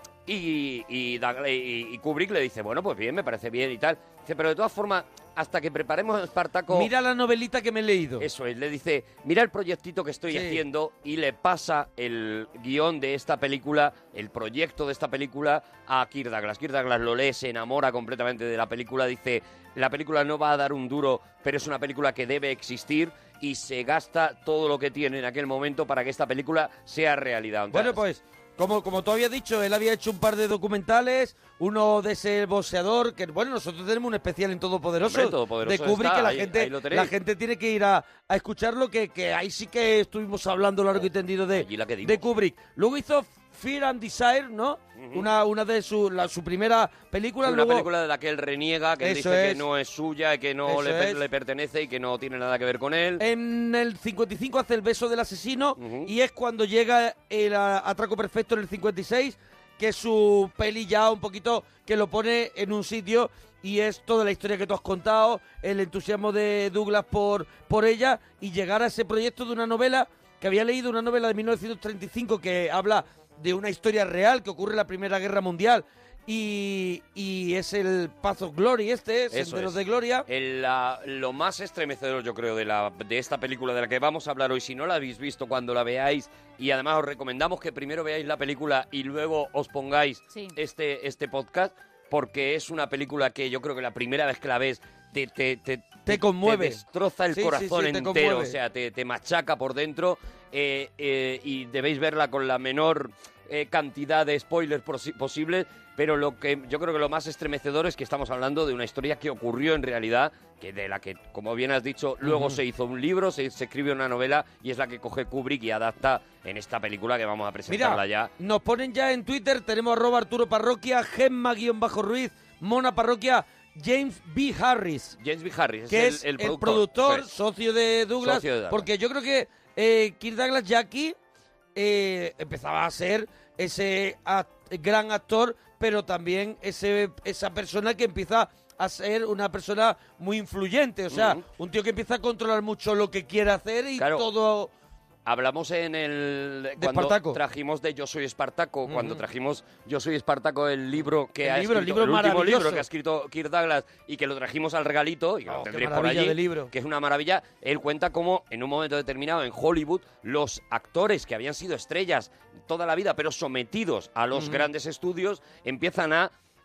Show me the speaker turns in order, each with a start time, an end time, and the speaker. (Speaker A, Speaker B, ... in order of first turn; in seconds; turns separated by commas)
Speaker A: 0.2-6.9, Speaker B: 6.7-8.3, Speaker A: 8.2-28.0, Speaker B: 10.3-10.6, Speaker B: 27.7-47.9, Speaker A: 35.0-37.1, Speaker A: 40.9-42.2, Speaker A: 45.0-45.3, Speaker A: 47.4-53.2, Speaker B: 49.0-49.6, Speaker B: 50.6-51.2, Speaker B: 53.2-80.2, Speaker A: 55.8-56.1, Speaker A: 79.3-118.3, Speaker B: 96.0-96.8, Speaker B: 97.3-98.6, Speaker B: 112.2-112.6, Speaker B: 117.7-125.2, Speaker A: 125.2-127.3, Speaker B: 125.9-131.1, Speaker A: 128.2-128.9, Speaker B: 131.7-144.7, Speaker A: 141.1-141.4, Speaker A: 144.0-144.3, Speaker A: 145.2-166.3, Speaker B: 146.8-147.4, Speaker B: 148.9-149.2, Speaker B: 151.4-152.8, Speaker B: 155.5-156.7, Speaker B: 164.3-164.7